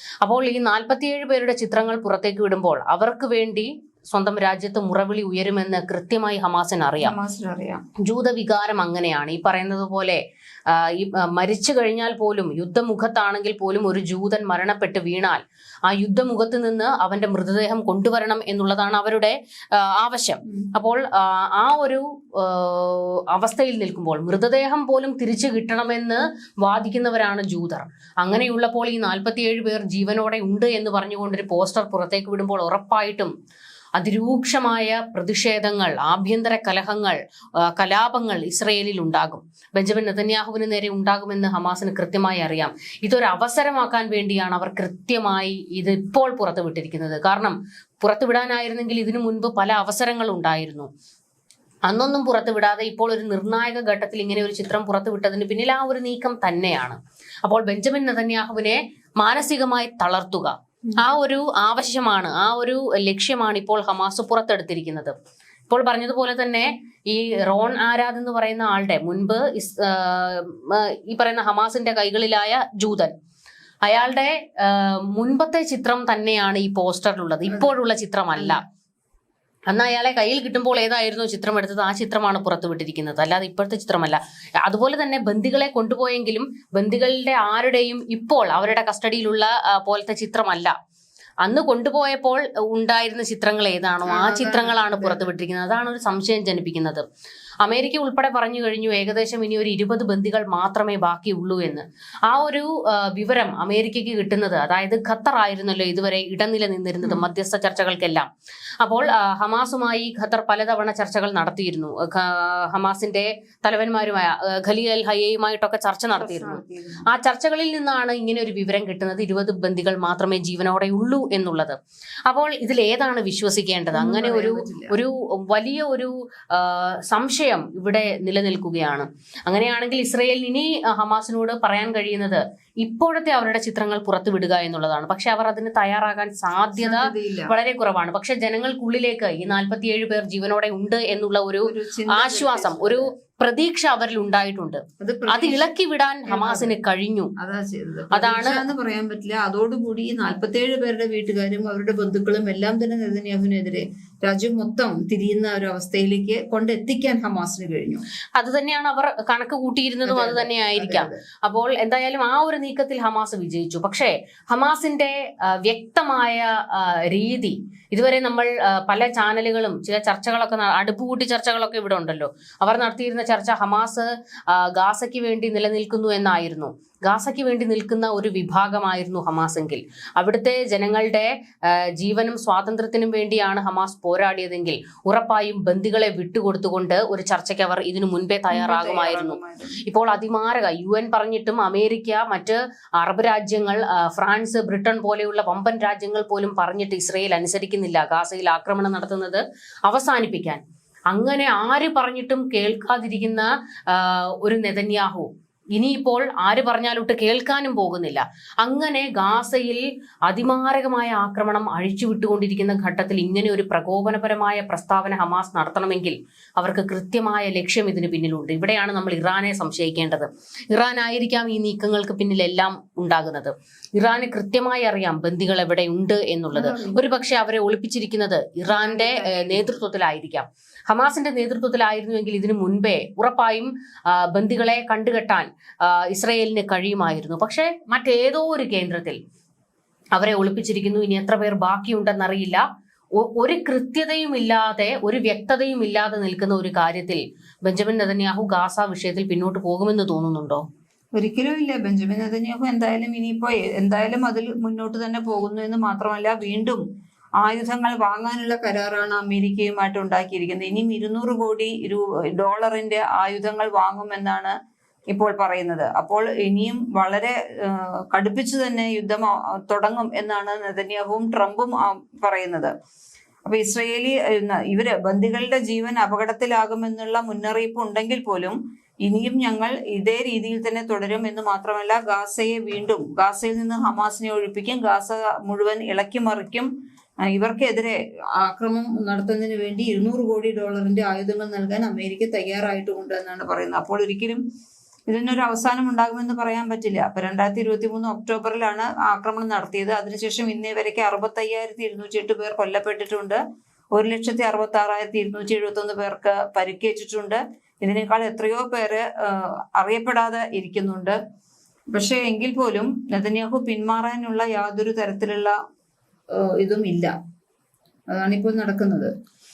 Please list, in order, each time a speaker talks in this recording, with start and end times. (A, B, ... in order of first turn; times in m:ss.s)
0:00.2-0:07.1 A
0:07.0-0:07.8 B
0:08.0-0:10.2 A
0:10.7-0:33.3 A
0:34.0-0:37.2 A
0:37.7-0:50.9 A
0:51.9-1:05.2 A
1:05.7-1:13.1 A
1:13.8-1:18.6 A
1:19.7-1:30.7 A
1:31.4-1:37.0 A
1:34.1-1:35.3 B
1:37.6-1:48.3 A
1:47.0-1:47.3 B
1:48.8-2:27.3 A
1:56.2-1:57.0 B
2:03.9-2:05.0 B
2:16.7-2:17.5 B
2:21.6-2:23.1 B
2:25.0-2:25.7 B
2:26.3-2:26.7 B
2:27.4-2:38.0 B
2:28.1-2:28.6 A
2:38.4-3:01.3 A
2:40.1-2:41.2 B
3:02.0-3:59.2 A
3:08.5-3:09.8 B
3:46.5-3:47.0 B
3:48.7-3:49.7 B
4:00.2-4:02.6 A
4:03.2-4:10.6 A
4:11.2-4:16.8 B
4:17.4-4:24.5 B
4:25.1-4:32.7 B
4:33.4-4:46.7 B
4:47.3-4:54.4 B
4:55.1-5:03.4 B
5:03.9-5:11.2 B
5:11.9-5:15.6 B
5:16.4-5:17.1 B
5:18.1-5:19.1 B